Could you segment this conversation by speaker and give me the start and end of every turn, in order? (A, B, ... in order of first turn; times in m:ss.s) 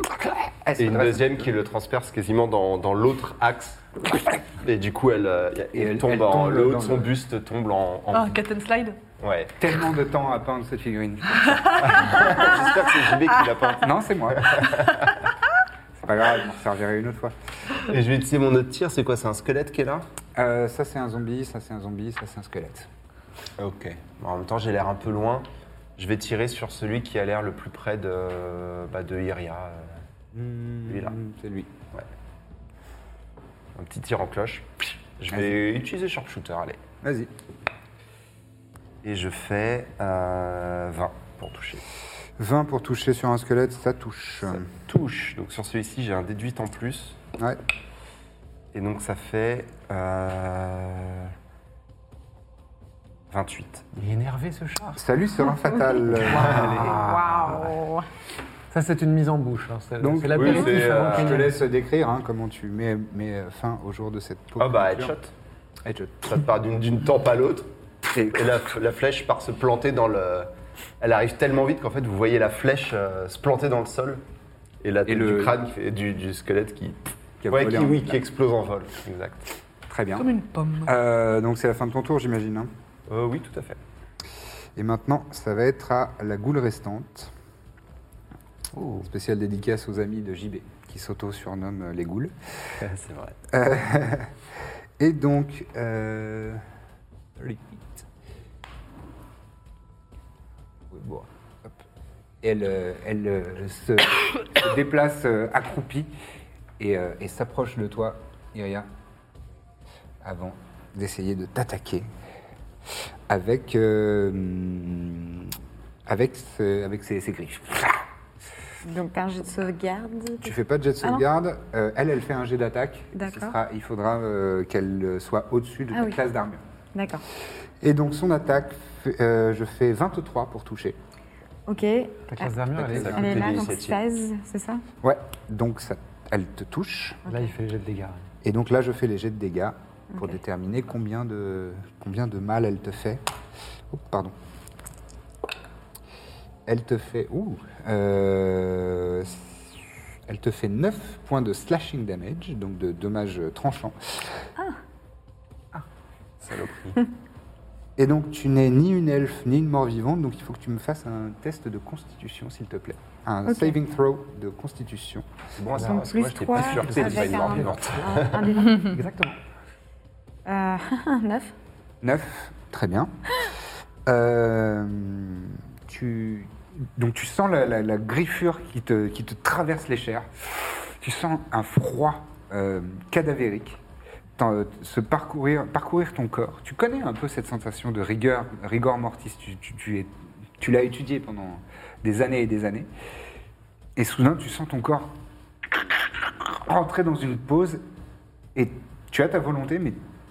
0:00.2-0:01.5 A
0:00.8-0:08.4 B
0:05.7-0:07.1 A
0:08.1-0:09.0 C
0:09.2-0:09.6 B
0:09.6-0:12.2 A
0:11.4-0:12.5 C
0:11.8-0:15.2 B
0:13.8-0:14.7 A
0:16.0-0:17.4 A
0:17.8-0:20.1 B
0:20.4-0:22.9 A
0:23.6-0:30.0 B
0:30.3-0:31.7 A
0:30.9-0:31.2 B
0:33.8-0:36.8 B
0:37.0-0:37.3 A
0:39.0-0:41.8 B
0:42.4-0:44.6 A
0:44.5-0:47.2 B
0:48.7-0:51.3 B
0:53.3-0:53.9 B
0:54.0-0:55.0 D
0:55.0-0:56.9 A
0:56.1-0:57.8 D
0:56.2-0:57.0 B
0:58.7-1:01.6 D
1:00.0-1:05.1 A
1:00.3-1:01.4 B
1:04.6-1:05.3 B
1:05.8-1:06.4 A
1:06.2-1:07.7 B
1:08.1-1:08.6 A
1:08.3-1:10.5 B
1:11.0-1:14.2 B
1:14.8-1:19.5 B
1:15.1-1:15.6 A
1:17.4-1:18.2 A
1:19.9-1:20.3 A
1:20.2-1:20.9 C
1:20.8-1:22.7 A
1:23.1-1:23.8 B
1:24.8-1:27.3 A
1:28.8-1:29.0 D
1:29.0-1:32.3 A
1:32.8-1:33.4 B
1:33.5-1:34.3 A
1:35.0-1:36.6 A
1:37.4-1:38.1 A
1:40.9-1:41.8 A
1:42.4-1:46.1 A
1:46.8-1:48.9 A
1:50.2-1:52.1 A
1:53.3-1:55.6 A
1:56.1-1:58.1 A
1:58.8-2:01.2 E
2:00.4-2:06.6 A
2:03.2-2:03.6 E
2:05.9-2:06.2 E
2:06.9-2:07.2 E
2:07.8-2:11.0 A
2:11.7-2:12.5 E
2:12.3-2:13.5 D
2:12.8-2:13.3 A
2:12.8-2:14.0 B
2:13.0-2:14.8 E
2:15.0-2:17.2 A
2:17.3-2:18.3 D
2:18.4-2:23.2 A
2:23.9-2:24.4 A
2:26.7-2:34.5 A
2:36.4-2:37.1 B
2:38.0-2:45.3 A
2:43.5-2:43.8 E
2:45.6-2:48.6 B
2:45.8-2:49.4 D
2:45.9-2:49.0 E
2:50.5-2:51.5 E
2:52.0-2:53.1 A
2:54.1-3:03.8 A
3:04.4-3:12.9 A
3:14.0-3:15.1 A
3:15.7-3:17.8 A
3:18.6-3:20.0 A